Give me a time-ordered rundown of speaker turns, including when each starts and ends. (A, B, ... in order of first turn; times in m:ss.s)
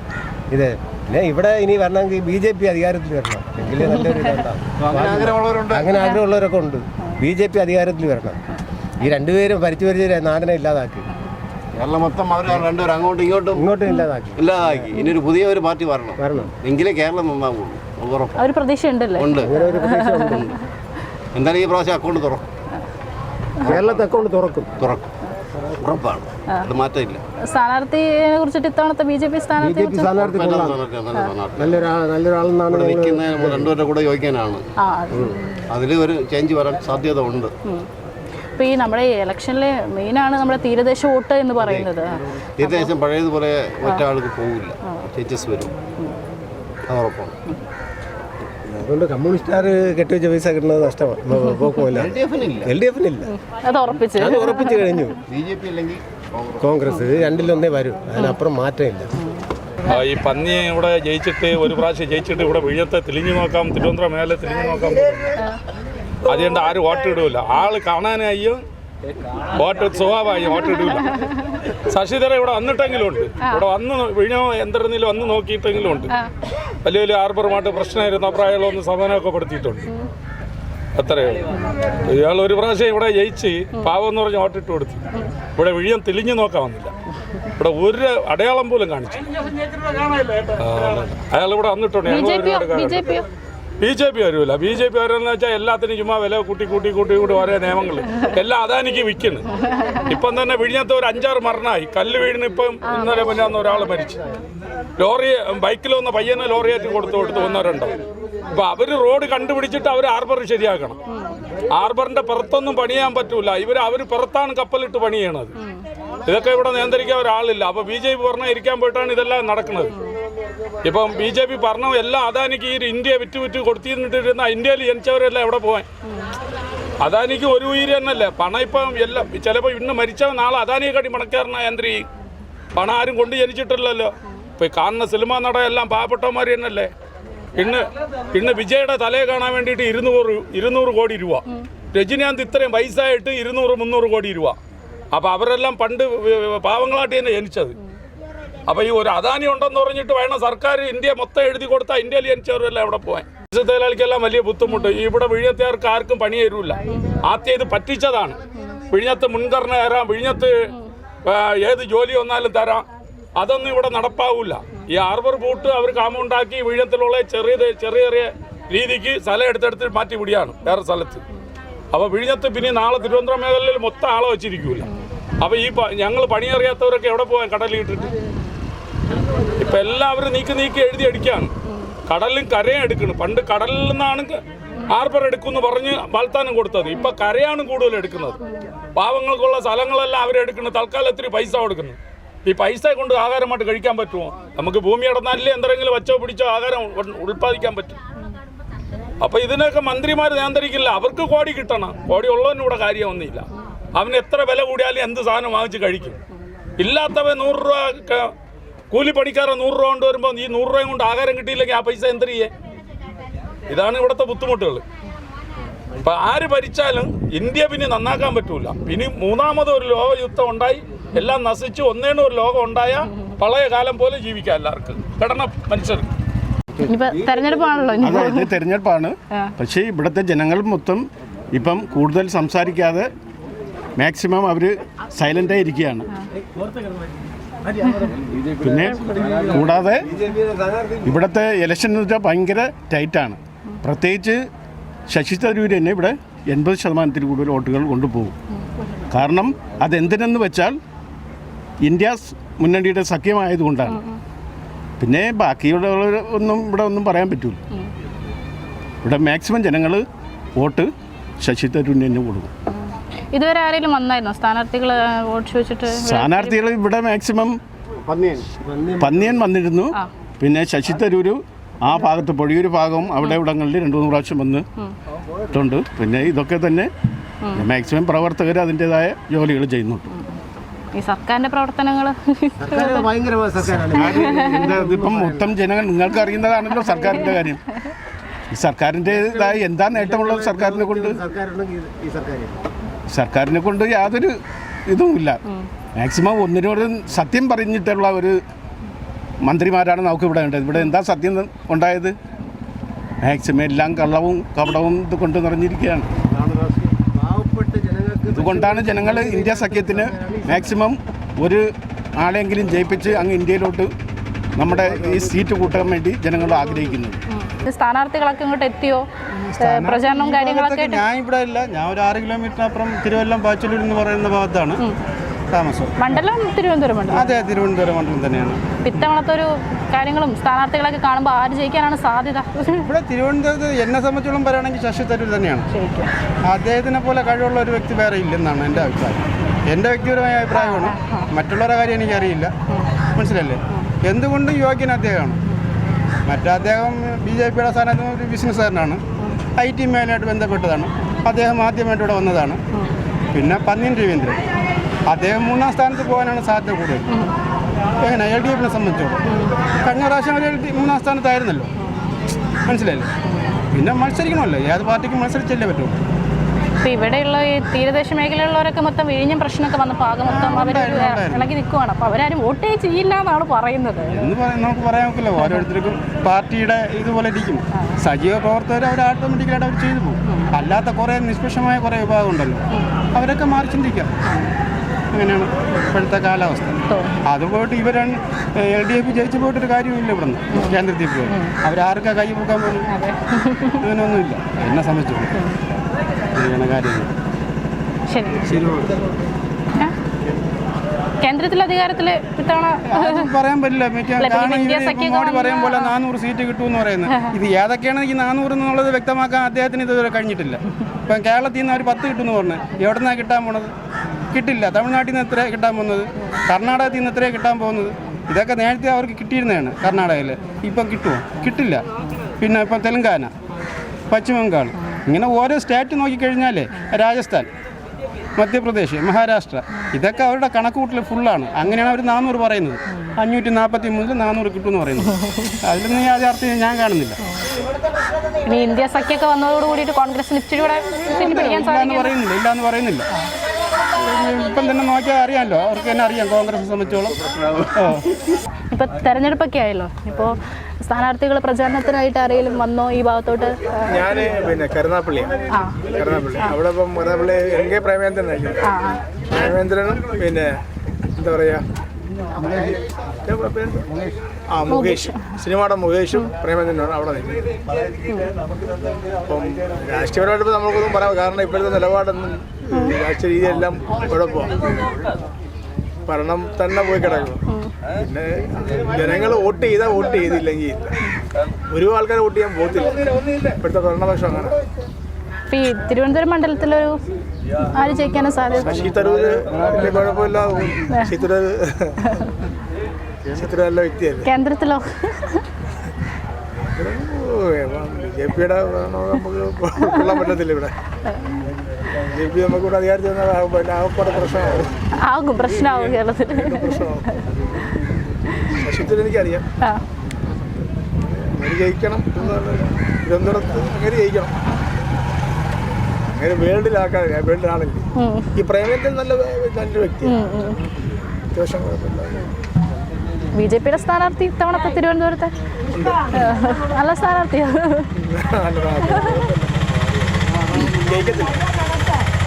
0:00.5-0:08.4 A
0:04.8-0:06.0 B
0:09.0-0:11.1 A
0:11.8-0:13.8 B
0:13.6-0:14.9 A
0:14.4-0:18.4 B
0:16.2-0:16.5 A
0:18.4-0:20.5 C
0:19.2-0:19.6 B
0:19.4-0:20.4 A
0:20.2-0:20.6 B
0:21.3-0:22.4 B
0:23.6-0:24.1 B
0:23.7-0:24.7 A
0:24.8-0:25.1 B
0:25.8-0:27.2 B
0:27.5-0:30.1 C
0:29.6-0:30.8 A
0:30.1-0:31.9 B
0:31.6-0:33.7 A
0:32.7-0:34.6 B
0:34.8-0:35.5 C
0:35.7-0:37.5 B
0:38.6-0:42.9 C
0:41.6-0:41.9 B
0:42.6-0:45.7 B
0:46.9-0:47.3 B
0:48.7-0:53.3 A
0:51.4-0:51.8 C
0:51.9-0:52.8 B
0:53.3-0:54.9 C
0:54.2-0:55.2 A
0:55.3-0:56.8 B
0:56.6-0:59.1 A
0:59.9-1:05.4 D
1:06.3-1:08.6 D
1:09.6-1:11.2 D
1:11.9-1:16.1 D
1:16.8-1:19.8 D
1:21.0-1:21.5 D
1:22.0-1:25.0 D
1:25.6-1:26.9 D
1:27.6-1:29.3 D
1:30.2-1:33.1 D
1:32.0-1:33.3 C
1:33.8-1:39.5 D
1:40.1-1:44.2 D
1:45.0-1:47.9 D
1:48.5-1:51.0 D
1:51.7-1:55.5 D
1:56.2-1:59.9 D
2:00.8-2:05.9 D
2:07.0-2:12.0 D
2:12.8-2:16.9 D
2:17.6-2:24.6 D
2:25.1-2:27.8 D
2:28.7-2:38.4 D
2:34.7-2:35.0 C
2:36.9-2:37.2 C
2:38.9-2:40.6 D
2:41.3-2:42.9 D
2:43.4-2:51.2 D
2:51.9-2:54.9 D
2:55.4-2:58.1 D
2:59.6-3:01.5 D
3:02.1-3:04.4 D
3:04.9-3:08.4 D
3:09.0-3:18.0 D
3:19.2-3:26.2 D
3:26.8-3:28.3 D
3:28.9-3:32.5 D
3:33.7-3:34.8 D
3:36.0-3:46.1 D
3:46.8-3:48.6 C
3:48.0-3:53.1 E
3:54.0-3:56.1 E
3:58.6-4:00.0 E
4:00.1-4:01.1 A
4:01.0-4:04.4 E
4:05.1-4:08.4 E
4:09.1-4:10.8 E
4:11.8-4:14.0 E
4:13.9-4:14.2 C
4:15.0-4:17.6 E
4:19.0-4:20.0 E
4:20.6-4:20.9 E
4:21.4-4:22.5 E
4:22.7-4:26.6 C
4:25.9-4:27.6 E
4:28.1-4:28.4 B
4:28.6-4:29.3 A
4:29.0-4:34.7 E
4:35.5-4:36.9 E
4:37.6-4:40.1 E
4:40.1-4:40.4 C
4:41.0-4:43.1 C
4:42.6-4:45.5 A
4:43.7-4:47.6 E
4:44.0-4:44.7 C
4:46.7-4:47.4 C
4:48.5-4:51.2 E
4:49.9-4:52.6 A
4:53.1-4:54.4 E
4:54.9-4:55.4 E
4:56.0-4:58.4 E
4:59.4-5:02.2 E
5:03.2-5:06.1 E
5:06.2-5:10.8 A
5:08.3-5:13.9 E
5:14.6-5:17.2 E
5:17.3-5:19.0 C
5:19.3-5:24.8 F
5:19.6-5:21.0 C
5:25.5-5:26.2 F
5:26.0-5:27.3 C
5:27.1-5:29.1 F
5:28.8-5:32.9 C
5:32.8-5:35.7 F
5:35.7-5:36.1 C
5:36.5-5:42.5 F
5:40.6-5:41.3 C
5:43.1-5:45.4 F
5:46.2-5:49.0 F
5:49.6-5:52.6 F
5:53.3-5:54.4 F
5:55.1-5:57.1 F
5:58.0-5:59.2 F
5:59.3-5:59.6 C
5:59.8-6:01.7 F
6:01.8-6:02.1 C
6:02.6-6:03.1 F
6:03.3-6:03.6 C
6:03.7-6:06.0 F
6:06.8-6:14.3 C
6:10.2-6:11.5 F
6:14.1-6:22.6 F
6:15.4-6:15.7 C
6:23.1-6:24.1 F
6:24.3-6:24.5 C
6:25.1-6:32.9 F
6:26.9-6:27.2 C
6:30.5-6:31.5 C
6:32.9-6:33.8 C
6:33.8-6:35.3 F
6:35.3-6:35.6 C
6:36.4-6:37.1 F
6:38.1-6:38.6 C
6:41.2-6:43.3 C
6:42.9-6:53.7 F
6:44.2-6:45.9 C
6:54.3-7:01.8 F
7:02.4-7:03.3 F
7:04.1-7:07.5 F
7:08.4-7:15.1 F
7:15.6-7:17.2 F
7:18.4-7:22.2 C
7:21.1-7:23.1 F
7:24.0-7:27.2 F
7:27.8-7:28.0 F
7:28.7-7:34.1 C
7:33.9-7:35.3 G
7:35.8-7:38.7 G
7:38.6-7:39.0 C
7:39.3-7:40.5 G
7:41.2-7:41.6 G
7:42.4-7:43.9 G
7:44.5-7:47.6 G
7:44.7-7:45.2 C
7:49.3-7:54.5 G
7:56.1-8:01.0 G
8:01.7-8:03.0 G
8:03.6-8:04.6 G
8:05.5-8:07.0 C
8:07.7-8:08.9 C
8:08.6-8:11.9 G
8:13.3-8:14.3 G
8:14.2-8:15.4 C
8:16.7-8:20.7 G
8:19.9-8:20.1 C
8:22.1-8:24.7 G
8:25.0-8:26.8 C
8:25.4-8:27.1 G
8:28.5-8:29.4 G
8:31.1-8:34.3 G
8:36.1-8:40.1 G
8:38.0-8:38.3 C
8:40.0-8:40.6 C
8:41.3-8:42.3 G
8:43.3-8:45.3 C
8:45.7-8:46.1 G
8:46.1-8:47.9 C
8:48.0-8:49.7 G
8:50.6-8:51.4 G